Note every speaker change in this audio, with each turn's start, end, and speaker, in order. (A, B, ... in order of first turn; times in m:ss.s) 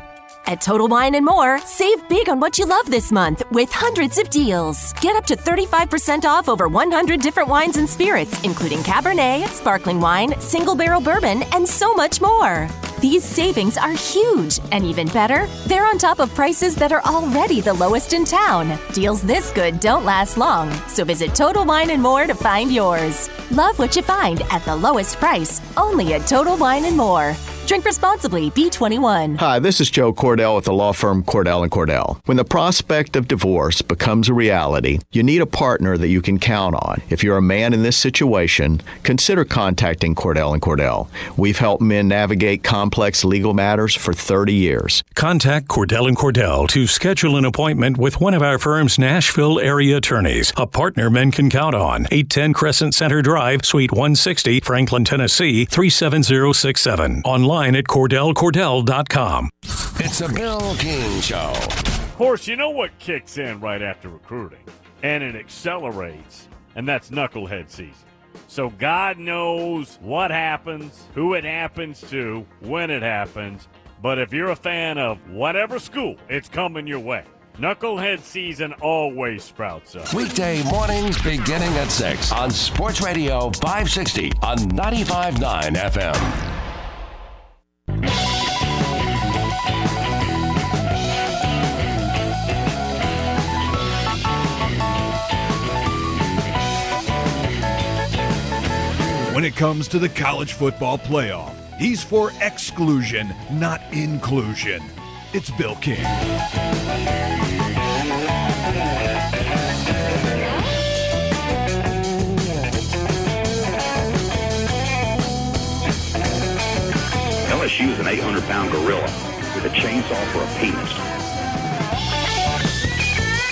0:00.4-0:29.4 A
0:29.4-0:45.0 B
0:45.1-0:59.5 C
1:00.0-1:01.8 D
1:02.2-1:20.1 E
1:20.1-1:26.4 D
1:39.3-1:46.2 F
1:57.5-2:01.0 G